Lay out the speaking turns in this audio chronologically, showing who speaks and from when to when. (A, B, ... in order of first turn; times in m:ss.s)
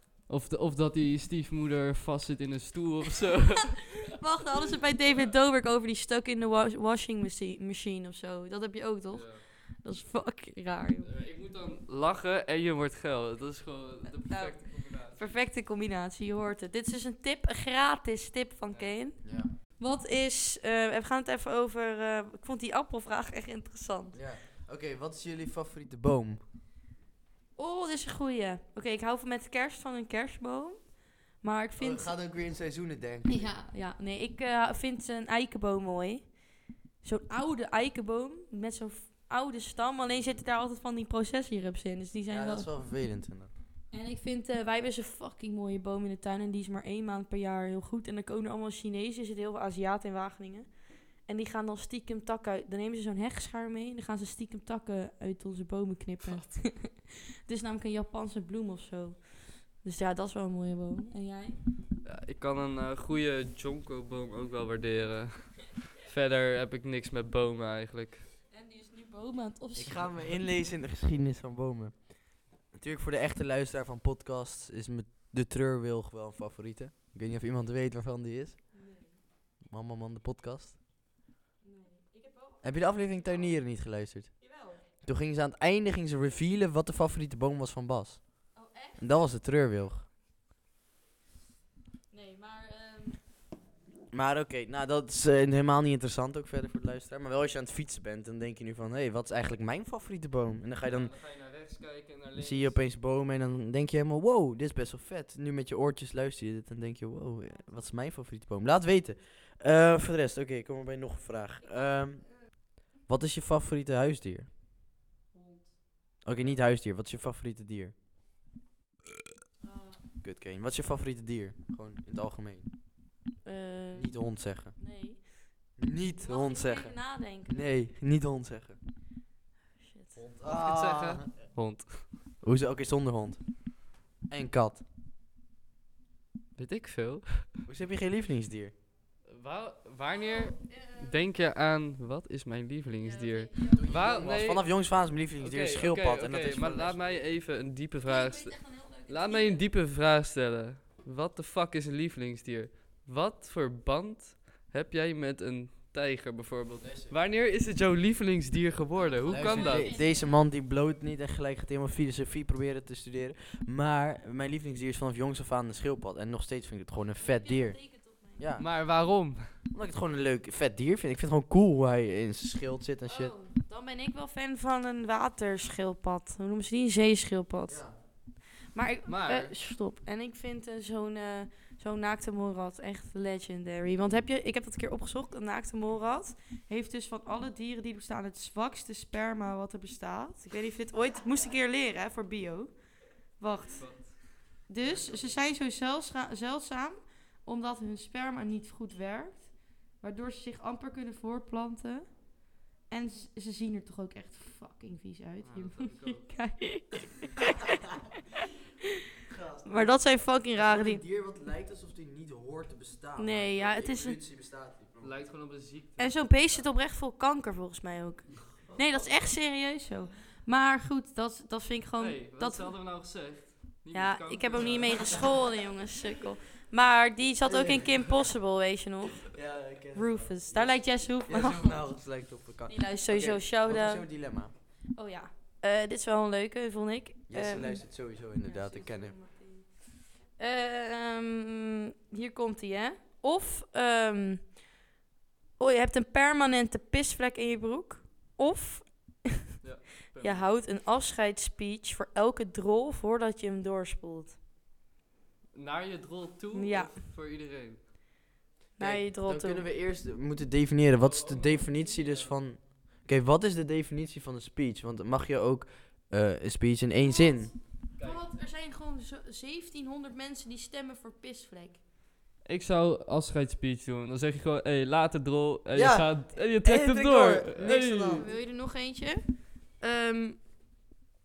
0:00.3-0:04.1 A
0:04.1-0:11.2 B
0:09.1-0:09.4 A
0:11.0-0:15.3 A
0:14.0-0:24.2 B
0:18.7-0:19.0 A
0:19.2-0:19.5 C
0:24.1-0:26.4 C
0:27.6-0:32.1 B
0:31.8-0:33.5 C
0:33.3-0:36.4 B
0:37.0-0:42.7 B
0:42.3-0:43.5 C
0:43.9-1:01.6 B
1:02.0-1:08.2 A
1:08.5-1:10.0 B
1:09.7-1:18.6 C
1:18.7-1:19.2 B
1:19.6-1:20.8 C
1:21.6-1:23.5 B
1:22.6-1:28.5 C
1:24.4-1:24.8 B
1:28.5-1:29.0 B
1:29.0-1:30.0 C
1:32.1-1:33.2 B
1:34.1-1:41.1 C
1:40.9-1:42.8 A
1:42.4-1:52.5 C
1:47.4-1:47.8 B
1:51.6-1:52.3 B
1:53.0-1:54.5 C
1:55.3-1:55.8 B
1:56.2-1:58.0 C
1:56.4-1:56.6 A
1:59.6-2:00.0 B
2:00.2-2:02.7 C
2:03.4-2:05.4 B
2:03.9-2:04.8 C
2:05.8-2:08.8 C
2:06.2-2:07.7 B
2:09.8-2:10.2 B
2:10.2-2:11.3 C
2:10.4-2:12.1 A
2:12.4-2:14.8 C
2:16.6-2:17.4 A
2:17.7-2:18.7 C
2:19.3-2:24.6 A
2:20.1-2:21.2 B
2:23.0-2:24.2 B
2:23.7-2:27.2 C
2:25.4-2:40.0 A
2:28.0-2:29.6 B
2:36.8-2:37.1 C
2:38.9-2:40.4 B
2:39.3-2:47.8 C
2:47.2-2:48.5 B
2:48.4-2:48.7 C
2:48.6-2:49.5 A
2:49.7-2:53.3 C
2:53.0-2:57.9 B
2:57.7-2:57.9 C
2:58.6-3:12.8 B
2:59.1-2:59.5 A
3:13.4-3:14.0 B
3:13.7-3:15.4 A
3:14.6-3:27.7 B
3:25.4-3:26.3 A
3:29.2-3:35.2 C
3:29.6-3:31.0 B
3:33.2-3:34.2 B
3:35.0-3:36.7 A
3:36.0-3:42.9 B
3:42.0-3:45.4 A
3:43.9-3:49.3 B
3:44.6-3:45.0 C
3:47.4-3:48.2 C
3:49.3-3:54.5 C
3:49.9-3:51.9 B
3:52.7-3:54.1 B
3:54.9-4:04.5 B
3:57.3-3:59.2 C
4:05.6-4:09.4 B
4:09.6-4:10.5 A
4:10.2-4:14.4 B
4:15.5-4:17.8 A
4:16.5-4:17.0 B
4:18.8-4:19.7 B
4:18.8-4:27.5 C
4:20.9-4:22.4 A
4:27.0-4:31.8 B
4:27.9-4:28.2 A
4:32.4-4:38.3 A
4:35.7-4:38.3 C
4:38.2-4:40.4 B